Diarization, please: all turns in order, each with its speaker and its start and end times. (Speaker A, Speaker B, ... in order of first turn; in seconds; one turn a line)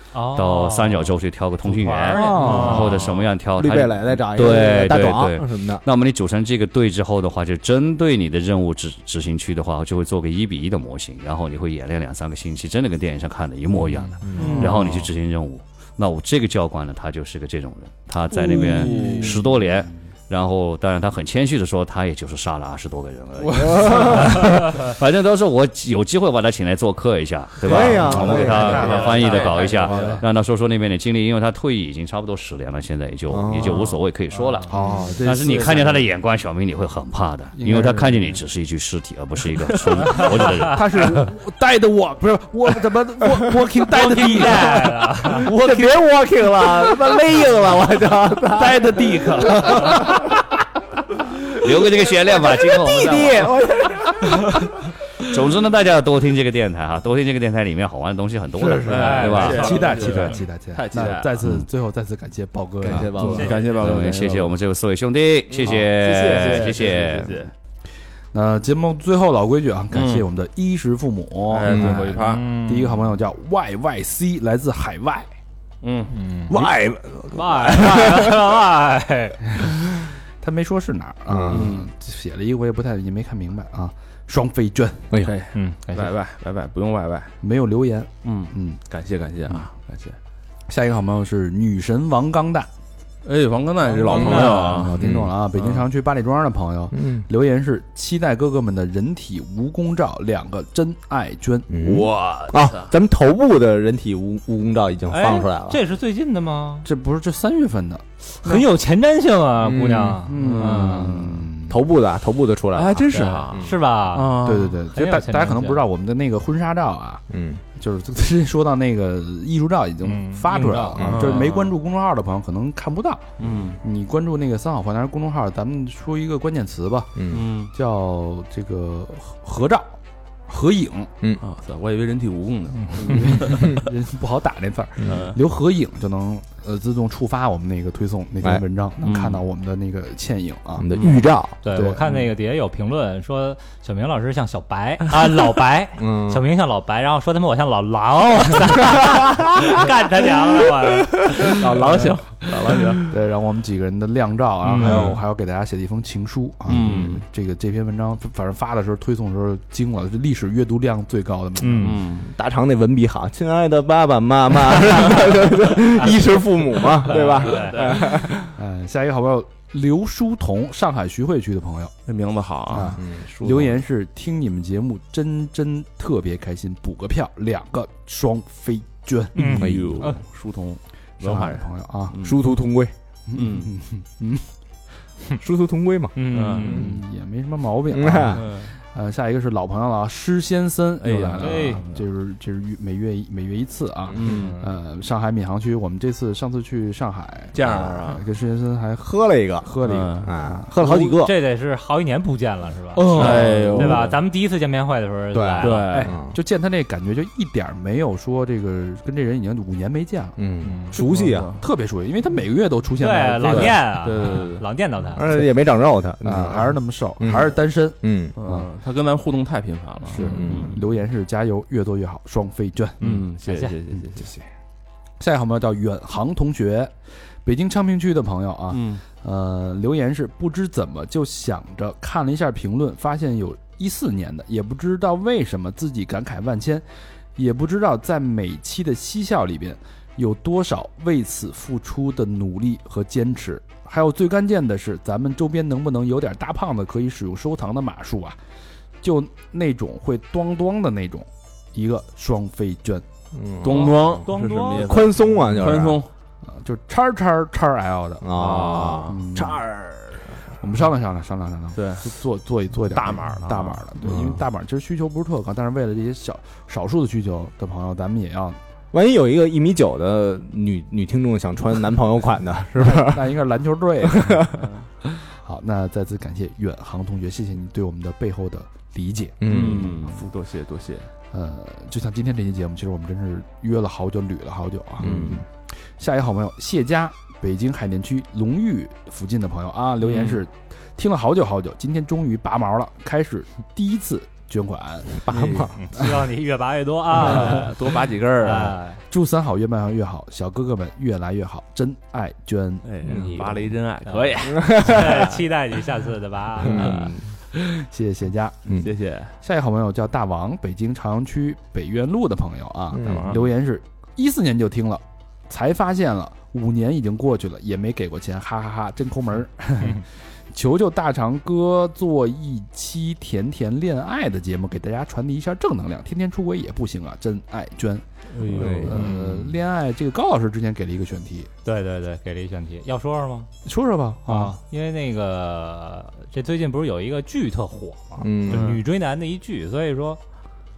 Speaker A: 0.1-3.0
Speaker B: 0.3-41.2
Speaker C: 2.1-3.0
Speaker D: 2.4-3.2
Speaker E: 3.5-5.8
Speaker E: 14.2-14.7
Speaker C: 14.3-14.8
Speaker D: 14.3-15.1
Speaker D: 18.5-19.4
Speaker C: 18.7-19.3
Speaker C: 23.5-24.3
Speaker E: 23.6-24.3
Speaker A: 24.4-24.7
Speaker E: 27.6-29.0
Speaker C: 27.7-30.2
Speaker D: 28.6-30.2
Speaker E: 33.3-33.9
Speaker C: 34.7-36.0
Speaker E: 34.7-35.2
Speaker C: 37.5-38.4
Speaker C: 40.1-45.9
Speaker A: 43.9-45.6
Speaker E: 45.4-48.8
Speaker C: 48.5-50.3
Speaker E: 49.6-50.0
Speaker B: 51.5-53.5
Speaker E: 52.2-54.6
Speaker B: 55.2-60.3
Speaker C: 58.6-63.6
Speaker D: 58.8-61.4
Speaker A: 58.9-60.2
Speaker E: 62.8-63.7
Speaker D: 63.1-64.5
Speaker A: 63.3-63.7
Speaker B: 63.6-67.5
Speaker E: 65.5-67.0
Speaker D: 65.7-67.5
Speaker C: 68.3-75.3
Speaker D: 69.9-70.2
Speaker D: 71.5-72.5
Speaker E: 71.7-72.1
Speaker A: 72.2-73.0
Speaker D: 75.8-76.2
Speaker A: 76.1-76.6
Speaker C: 76.5-78.3
Speaker A: 77.3-79.5
Speaker C: 79.6-85.1
Speaker E: 81.3-81.7
Speaker D: 81.5-81.9
Speaker D: 85.2-87.3
Speaker A: 85.5-86.1
Speaker C: 87.4-88.8
Speaker D: 88.2-90.2
Speaker C: 90.7-92.7
Speaker D: 93.2-94.9
Speaker C: 93.9-101.7
Speaker A: 94.0-94.9
Speaker E: 94.1-94.4
Speaker E: 95.0-95.3
Speaker D: 95.5-95.8
Speaker E: 96.9-97.3
Speaker E: 101.7-105.8
Speaker D: 101.8-102.9
Speaker A: 105.1-106.9
Speaker C: 106.8-108.0
Speaker A: 108.4-111.2
Speaker E: 109.7-110.2
Speaker C: 110.2-111.7
Speaker D: 110.3-111.1
Speaker E: 111.7-113.8
Speaker D: 112.7-114.8
Speaker A: 113.2-115.8
Speaker C: 114.4-117.2
Speaker E: 117.3-117.6
Speaker C: 117.7-130.0
Speaker A: 120.0-121.3
Speaker E: 120.9-121.4
Speaker D: 121.0-121.7
Speaker D: 123.4-123.8
Speaker E: 127.2-127.4
Speaker D: 127.3-127.7
Speaker C: 130.5-131.1
Speaker D: 131.4-133.8
Speaker A: 132.8-133.1
Speaker C: 133.0-140.9
Speaker D: 135.0-135.4
Speaker D: 139.0-139.4
Speaker E: 140.8-141.6
Speaker D: 140.9-141.2
Speaker A: 141.6-152.1
Speaker C: 141.7-142.2
Speaker E: 146.0-146.4
Speaker D: 151.4-153.1
Speaker C: 153.0-162.0
Speaker A: 154.7-155.2
Speaker D: 154.8-155.2
Speaker D: 156.7-157.2
Speaker A: 161.6-162.0
Speaker D: 161.8-162.3
Speaker E: 162.2-168.5
Speaker A: 167.1-168.0
Speaker D: 167.1-168.0
Speaker C: 168.5-171.9
Speaker D: 172.1-173.0
Speaker C: 172.7-179.6
Speaker E: 172.9-173.5
Speaker A: 179.3-180.2
Speaker D: 179.4-182.4
Speaker E: 179.5-180.2
Speaker C: 181.2-182.2
Speaker E: 182.2-182.9
Speaker C: 183.3-184.5
Speaker D: 183.3-183.7
Speaker E: 185.4-186.8
Speaker A: 186.1-186.9
Speaker D: 186.3-186.9
Speaker C: 186.6-201.1
Speaker E: 187.9-188.4
Speaker D: 188.3-188.7
Speaker D: 191.0-192.0
Speaker A: 191.4-191.8
Speaker D: 194.1-194.6
Speaker A: 194.3-194.6
Speaker D: 197.5-198.2
Speaker E: 197.6-198.1
Speaker E: 199.0-201.3
Speaker D: 199.8-200.3
Speaker A: 200.9-206.0
Speaker D: 202.9-204.2
Speaker C: 203.1-203.9
Speaker E: 203.2-204.0
Speaker E: 205.3-206.4
Speaker D: 205.6-206.1
Speaker C: 205.9-210.4
Speaker E: 210.4-211.5
Speaker A: 210.6-210.9
Speaker C: 210.9-213.8
Speaker D: 210.9-211.6
Speaker A: 213.0-215.4
Speaker D: 213.6-214.6
Speaker E: 215.1-217.5
Speaker C: 216.2-218.7
Speaker E: 218.0-218.3
Speaker D: 218.4-220.8
Speaker C: 220.1-223.0
Speaker E: 220.2-220.8
Speaker D: 223.0-224.3
Speaker A: 223.4-223.7
Speaker C: 225.2-236.8
Speaker D: 228.7-229.0
Speaker C: 237.3-248.4
Speaker C: 249.0-253.0
Speaker E: 253.3-256.0
Speaker D: 253.6-256.1
Speaker A: 253.8-255.1
Speaker C: 256.4-258.4
Speaker E: 258.2-260.4
Speaker D: 258.3-259.1
Speaker C: 259.1-259.6
Speaker C: 260.6-268.6
Speaker D: 261.7-262.1
Speaker D: 262.9-264.4
Speaker E: 268.9-273.4
Speaker C: 272.8-280.2
Speaker E: 274.1-274.5
Speaker D: 274.6-274.9
Speaker E: 279.4-280.0
Speaker D: 279.4-281.1
Speaker C: 281.3-285.4
Speaker E: 285.0-285.4
Speaker D: 285.0-285.4
Speaker C: 286.0-295.3
Speaker D: 290.0-290.4
Speaker E: 295.2-295.7
Speaker D: 295.3-295.7
Speaker A: 295.7-299.0
Speaker D: 297.2-298.8
Speaker C: 299.1-303.6
Speaker D: 302.8-305.5
Speaker E: 303.1-303.4
Speaker A: 304.1-307.1
Speaker E: 304.5-305.2
Speaker E: 306.6-307.3
Speaker C: 307.5-308.8
Speaker D: 308.8-309.3
Speaker C: 309.4-331.5
Speaker E: 312.9-313.3
Speaker D: 313.0-313.4
Speaker D: 328.3-329.1
Speaker E: 328.4-329.0
Speaker A: 328.9-329.4
Speaker A: 331.6-333.5
Speaker C: 333.6-334.5
Speaker A: 334.2-340.2
Speaker E: 338.2-338.7
Speaker D: 338.5-338.8